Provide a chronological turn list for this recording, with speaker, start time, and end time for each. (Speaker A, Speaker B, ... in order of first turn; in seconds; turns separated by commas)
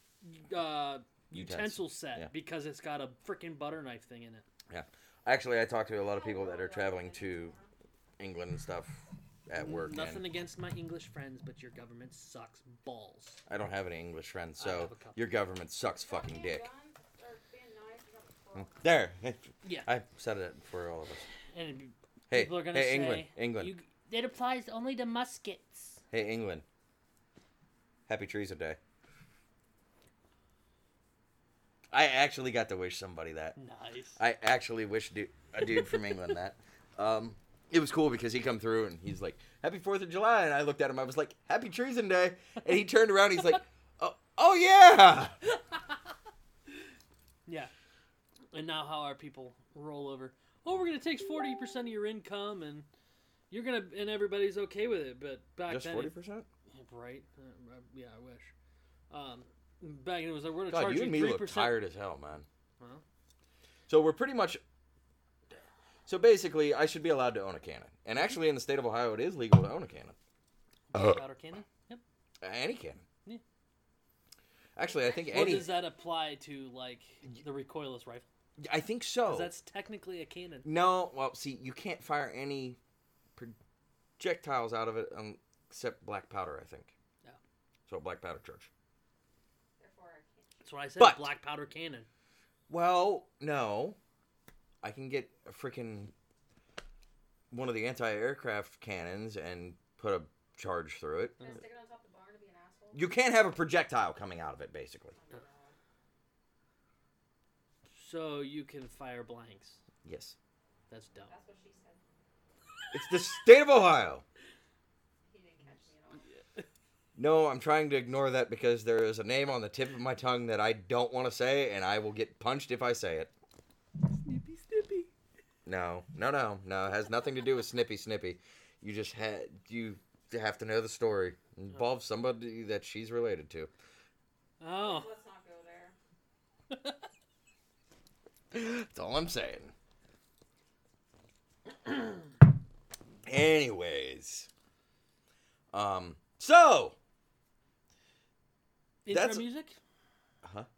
Speaker A: 0.2-4.5, Speaker B: 1.3-2.3, Speaker B: 4.7-7.5, Speaker C: 6.0-7.7, Speaker B: 8.2-10.3, Speaker A: 9.5-13.4, Speaker B: 13.5-16.6, Speaker A: 14.6-15.2, Speaker C: 16.0-18.9, Speaker B: 18.6-21.3, Speaker A: 19.6-19.9, Speaker A: 21.5-26.0, Speaker B: 22.3-23.7, Speaker B: 26.1-26.6, Speaker B: 28.1-28.8, Speaker B: 31.9-33.5, Speaker A: 33.5-34.2, Speaker B: 34.2-45.4, Speaker A: 35.7-36.1, Speaker A: 47.5-47.7, Speaker A: 48.5-52.9, Speaker A: 53.5-56.2, Speaker B: 55.7-56.5, Speaker A: 56.7-58.5, Speaker A: 59.1-61.8, Speaker B: 60.7-62.5, Speaker B: 63.9-64.6, Speaker B: 66.1-70.2, Speaker A: 70.9-72.0, Speaker B: 70.9-71.2, Speaker B: 72.4-73.0, Speaker B: 74.8-75.7, Speaker C: 74.8-76.1, Speaker A: 75.3-78.3, Speaker B: 78.6-79.5, Speaker A: 79.3-80.7, Speaker B: 80.6-82.8, Speaker B: 84.2-86.9, Speaker B: 87.9-88.7, Speaker C: 89.8-90.6, Speaker A: 90.6-92.1, Speaker B: 91.0-91.3, Speaker B: 92.7-94.0, Speaker B: 94.8-96.1, Speaker B: 97.5-101.4, Speaker C: 101.4-103.0, Speaker B: 102.9-105.2, Speaker C: 105.1-105.8, Speaker A: 107.9-109.8, Speaker B: 110.0-110.4, Speaker A: 110.9-111.3, Speaker C: 111.3-112.0, Speaker B: 112.9-114.2, Speaker C: 115.3-116.2, Speaker B: 117.2-123.3, Speaker A: 124.2-125.1, Speaker B: 125.7-133.7, Speaker A: 134.6-135.1, Speaker C: 134.8-135.9, Speaker A: 136.7-137.0, Speaker B: 138.5-139.7, Speaker B: 143.2-144.5, Speaker B: 145.7-146.9, Speaker A: 149.1-149.8, Speaker B: 149.1-149.4, Speaker B: 150.4-150.7